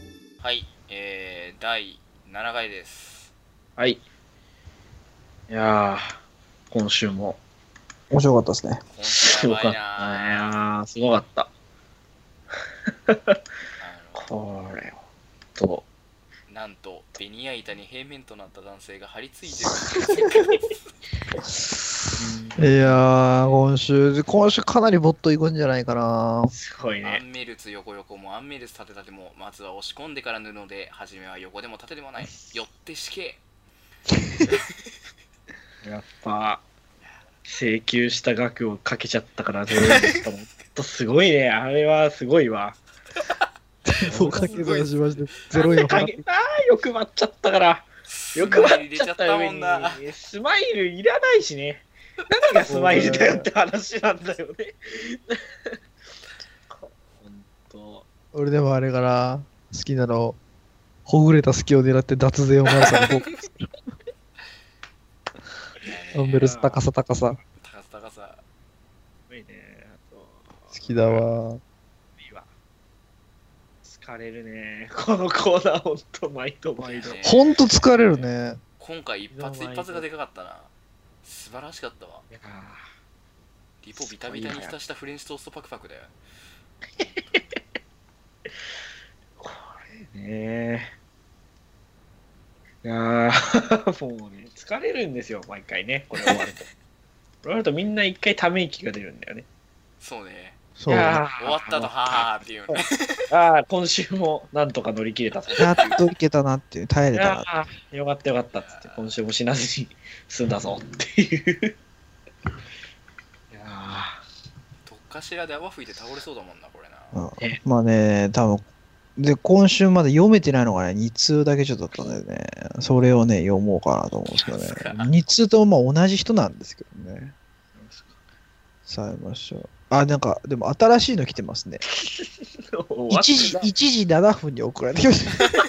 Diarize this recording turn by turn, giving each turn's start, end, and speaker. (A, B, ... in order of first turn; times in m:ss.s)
0:00.4-0:03.3 A
0:03.8-0:04.0 B
0:05.5-0:06.2 B
0:06.7-0:07.4 B
0:08.1-0:08.8 C
0:08.9-0:10.6 A
0:09.1-0:11.5 B
0:12.9-0:13.4 B
0:13.8-0:14.3 A
0:14.1-0:15.0 B
0:15.5-0:15.8 B
0:16.5-0:20.7 A
0:22.2-0:23.0 B
0:22.6-0:26.5 C
0:23.2-0:23.6 A
0:26.5-0:27.2 B
0:27.0-0:33.4 A
0:35.8-0:36.6 B
0:37.5-0:42.8 B
0:39.8-0:40.2 A
0:43.8-0:46.2 C
0:44.0-0:44.7 B
0:44.1-0:45.8 A
0:45.7-0:55.8 B
0:48.1-0:50.0 A
0:52.7-0:53.5 C
0:56.7-0:58.0 B
0:58.3-1:00.4 C
1:01.1-1:03.7 C
1:02.8-1:03.1 A
1:05.8-1:06.6 A
1:06.1-1:07.4 C
1:06.3-1:06.8 B
1:07.6-1:08.4 A
1:09.3-1:11.3 B
1:10.7-1:11.6 C
1:12.2-1:12.5 B
1:13.8-1:17.2 B
1:16.8-1:20.7 A
1:17.2-1:18.6 C
1:19.3-1:20.0 B
1:21.2-1:22.2 A
1:22.3-1:22.8 B
1:23.8-1:26.1 A
1:24.0-1:24.7 B
1:27.0-1:27.6 B
1:29.4-1:30.9 B
1:32.8-1:36.7 B
1:37.4-1:39.5 B
1:40.0-1:40.6 A
1:40.8-1:41.2 C
1:40.9-1:45.9 B
1:41.4-1:43.2 A
1:45.4-1:46.0 A
1:45.6-1:47.5 C
1:47.1-1:51.7 B
1:48.6-1:49.2 A
1:53.5-1:54.2 B
1:54.8-1:57.2 A
1:57.1-1:58.6 C
1:59.2-2:07.3 C
2:04.3-2:05.1 A
2:07.8-2:08.2 B
2:08.8-2:11.8 C
2:12.0-2:13.7 B
2:13.1-2:15.5 C